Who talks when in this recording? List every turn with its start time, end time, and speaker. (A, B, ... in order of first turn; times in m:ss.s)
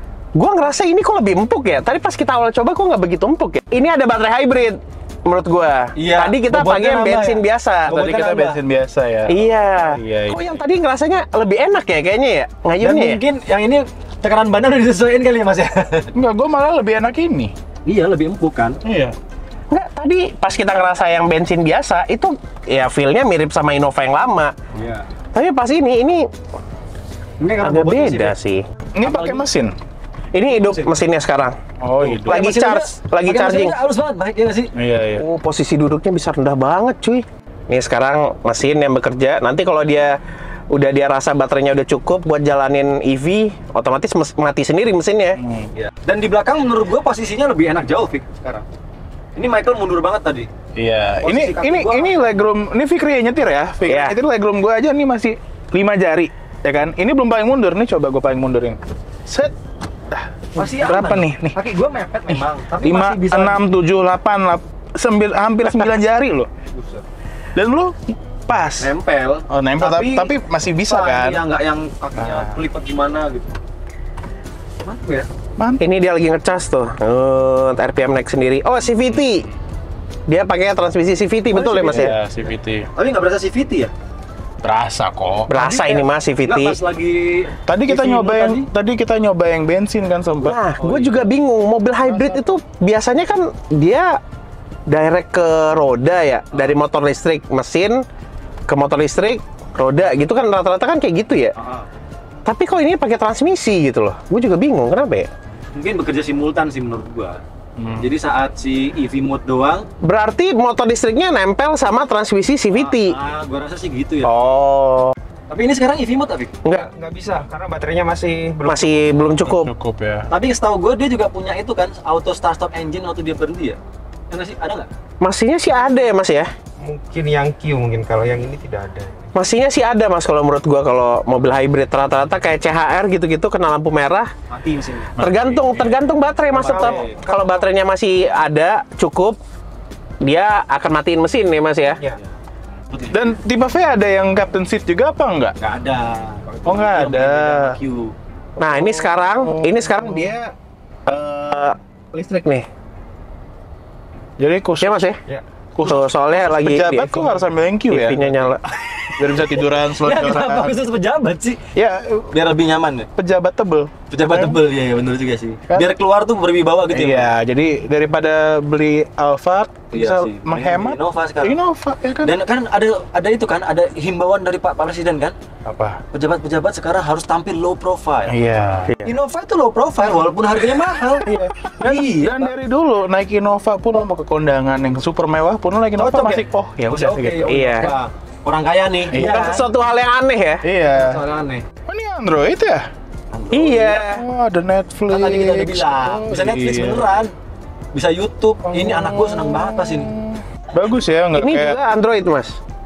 0:00.4-0:08.0 A
0:06.0-0:08.6 B
0:07.9-0:10.5 C
0:09.3-0:13.2 A
0:12.8-0:16.1 B
0:16.2-0:17.5 C
0:17.9-0:18.8 B
0:18.8-0:19.2 C
0:19.7-0:24.5 A
0:24.7-0:25.1 B
0:25.3-0:26.3 A
0:27.4-0:28.4 B
0:27.6-0:28.6 A
0:29.0-0:29.8 C
0:29.0-0:29.4 B
0:30.3-0:31.6 A
0:30.5-0:30.9 B
0:31.8-0:32.4 C
0:32.0-0:34.7 B
0:32.2-0:33.7 A
0:34.8-0:35.2 C
0:35.2-0:40.2 A
0:40.7-0:45.4 A
0:45.4-0:45.7 C
0:45.8-0:48.6 B
0:49.4-0:50.5 B
0:50.8-0:59.6 C
0:51.2-0:52.2 B
0:53.8-0:54.2 A
1:00.1-1:01.6 C
1:00.6-1:03.6 B
1:02.8-1:06.5 C
1:06.7-1:07.0 B
1:07.6-1:08.9 C
1:08.8-1:10.4 B
1:09.5-1:11.4 C
1:10.9-1:13.6 B
1:12.2-1:12.6 C
1:14.8-1:15.3 B
1:15.8-1:19.5 A
1:20.3-1:22.1 A
1:21.5-1:22.9 C
1:21.6-1:23.9 B
1:24.6-1:25.5 C
1:25.5-1:26.8 A
1:25.5-1:28.7 B
1:27.7-1:30.6 C
1:30.4-1:34.2 A
1:30.8-1:31.3 B
1:32.1-1:32.5 C
1:34.9-1:38.0 A
1:38.7-1:41.5 A
1:41.6-1:41.9 B
1:42.5-1:45.3 A
1:45.8-1:47.4 B
1:47.8-1:48.1 C
1:48.0-1:49.9 B
1:50.0-1:53.2 A
1:52.7-1:54.3 B
1:54.2-1:55.1 A
1:55.5-1:56.5 B
1:56.7-1:59.3 D
1:58.6-1:59.7 A
1:59.4-2:00.3 C
2:00.3-2:03.8 B
2:04.3-2:04.9 B
2:05.2-2:06.5 A
2:06.8-2:09.4 D
2:09.4-2:14.3 A
2:14.5-2:15.2 B
2:15.2-2:16.0 C
2:15.2-2:19.4 A
2:16.5-2:17.5 B
2:20.2-2:22.0 A
2:22.9-2:23.4 B
2:23.1-2:25.6 C
2:25.6-2:28.2 B
2:26.7-2:27.4 C
2:27.4-2:27.8 A
2:28.6-2:30.5 A
2:29.4-2:30.3 C
2:31.1-2:32.6 A
2:34.4-2:35.0 C
2:34.8-2:35.2 A
2:35.8-2:38.2 C
2:35.8-2:37.4 A
2:37.9-2:38.6 A
2:38.2-2:41.7 B
2:39.2-2:40.8 C
2:41.8-2:42.3 C
2:42.3-2:43.1 B
2:43.2-2:44.6 C
2:44.1-2:47.3 B
2:46.9-2:52.4 C
2:49.9-2:51.6 B
2:52.2-2:55.4 B
2:55.6-2:56.0 C
2:56.1-2:58.4 B
2:58.3-2:58.9 C
2:59.0-3:02.5 B
3:01.2-3:07.9 C
3:06.0-3:09.6 B
3:07.4-3:07.9 A
3:09.1-3:10.6 A
3:09.1-3:09.6 C
3:10.6-3:11.2 C
3:10.9-3:11.6 B
3:11.9-3:12.8 C
3:13.3-3:14.0 B
3:13.5-3:14.2 A
3:14.0-3:17.1 C
3:15.1-3:17.3 B
3:17.9-3:20.1 B
3:18.7-3:21.8 C
3:21.4-3:22.6 A